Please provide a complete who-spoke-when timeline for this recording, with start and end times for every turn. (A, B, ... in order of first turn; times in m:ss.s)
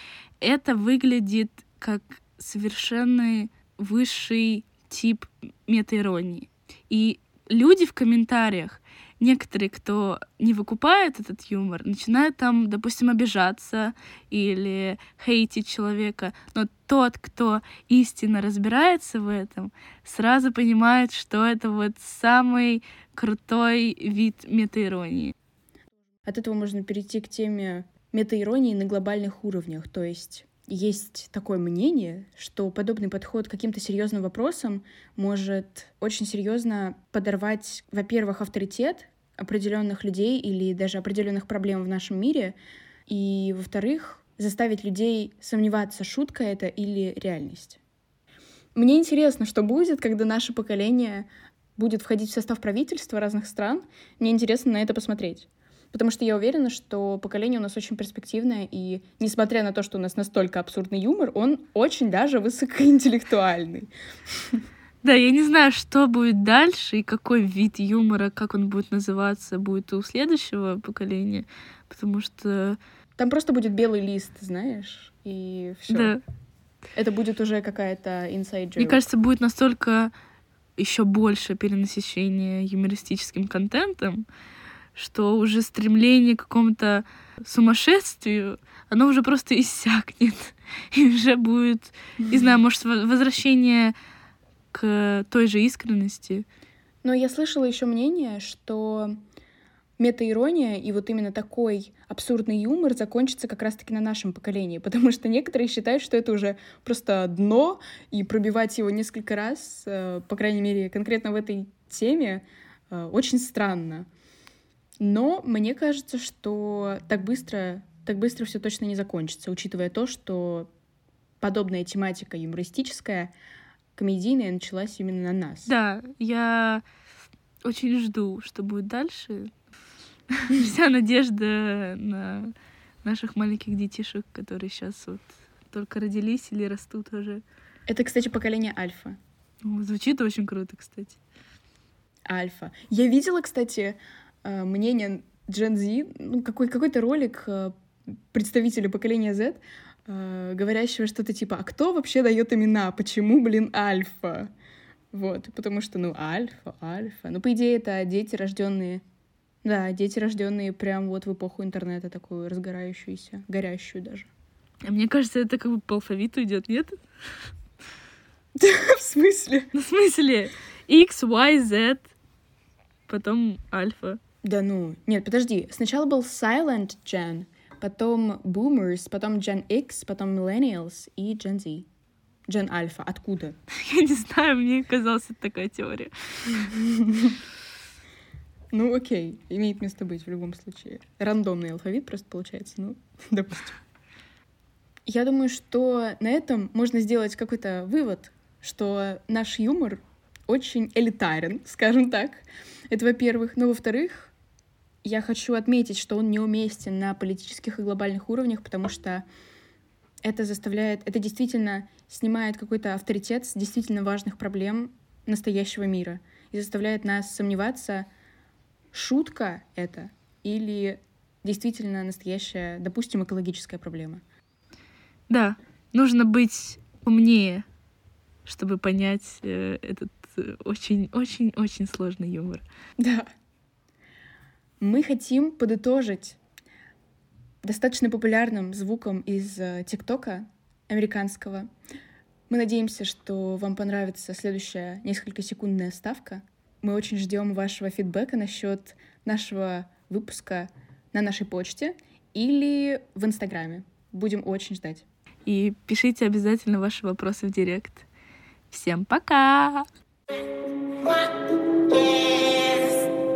0:00.4-0:25.3 A
0:26.3-0:42.6 B
0:43.1-0:47.8 B
0:48.8-1:03.9 B
1:05.0-1:12.8 A
1:13.2-1:16.2 B
1:15.9-1:16.2 A
1:17.0-1:19.0 B
1:18.8-1:20.1 A
1:20.8-1:24.2 A
1:25.0-1:34.0 A
1:32.2-1:32.6 B
1:34.7-1:36.4 A
1:37.0-1:39.2 B
1:40.0-1:54.1 B
1:55.0-2:00.7 B
2:01.4-2:03.3 B
2:04.0-2:05.7 B
2:05.7-2:06.8 A
2:07.6-2:09.5 A
2:10.4-2:12.5 A
2:13.0-2:17.4 A
2:17.9-2:19.2 B
2:19.6-2:21.2 A
2:22.3-2:27.7 B
2:28.3-2:34.5 B
2:35.1-2:39.0 B
2:39.6-2:44.3 B
2:44.8-2:47.0 A
2:48.6-2:49.7 B
2:49.7-2:52.1 A
2:53.1-2:54.2 A
2:54.4-3:01.9 B
3:02.5-3:03.6 B
3:03.8-3:06.5 A
3:06.7-3:07.4 B
3:08.7-3:13.8 B
3:15.1-3:24.3 B
3:25.0-3:29.2 B
3:30.2-3:38.1 B
3:38.9-3:44.2 B
3:45.3-3:47.6 A
3:48.5-3:52.6 A
3:53.0-3:53.3 B
3:54.8-3:56.4 B
3:57.6-4:01.7 B
4:02.5-4:15.1 B
4:15.5-4:18.0 A
4:18.7-4:19.9 A